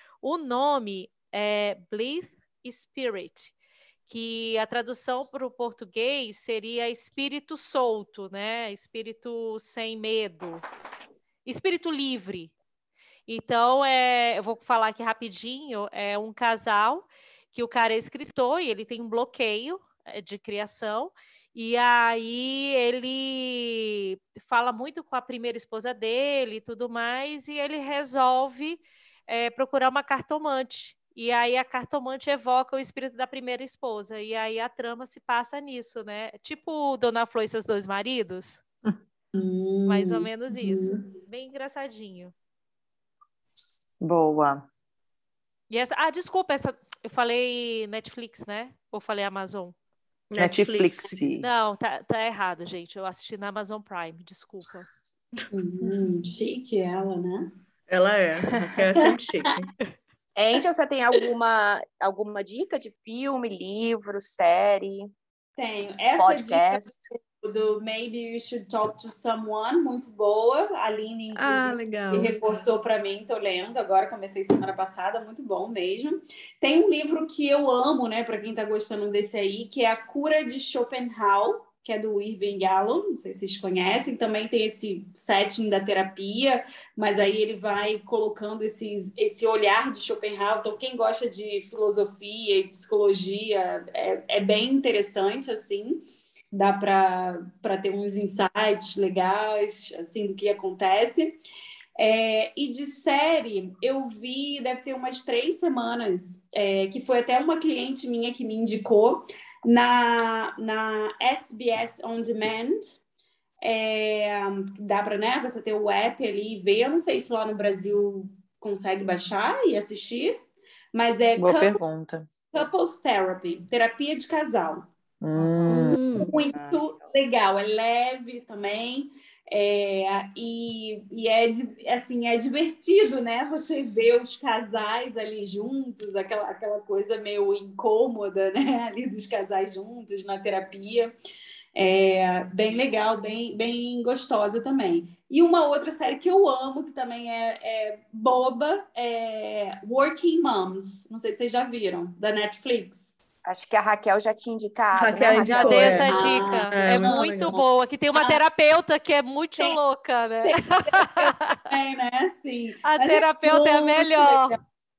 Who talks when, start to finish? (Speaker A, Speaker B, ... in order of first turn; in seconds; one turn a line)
Speaker A: 0.2-3.5
Speaker A: 4.0-10.6
Speaker A: 11.4-12.5
Speaker A: 13.3-38.6
Speaker B: 39.3-41.1
Speaker A: 39.9-42.3
Speaker C: 44.0-44.6
Speaker A: 45.7-49.7
Speaker D: 50.3-51.2
Speaker C: 50.4-51.5
Speaker A: 51.4-54.9
Speaker B: 55.5-57.5
Speaker D: 57.9-59.7
Speaker E: 60.4-65.1
Speaker B: 65.6-96.0
Speaker E: 66.2-67.0
Speaker D: 71.3-72.3
Speaker B: 96.5-101.4
Speaker B: 102.0-113.0
Speaker B: 113.6-120.3
Speaker B: 120.9-121.8
Speaker C: 121.4-122.3
Speaker B: 122.5-124.9
Speaker C: 125.2-126.0
Speaker B: 125.6-141.1
Speaker D: 125.7-126.4
Speaker B: 141.8-153.2
Speaker E: 153.4-156.3
Speaker D: 154.9-157.6
Speaker A: 155.4-161.6
Speaker B: 156.1-157.6
Speaker B: 158.1-158.4
Speaker B: 160.4-164.6
Speaker A: 162.8-164.6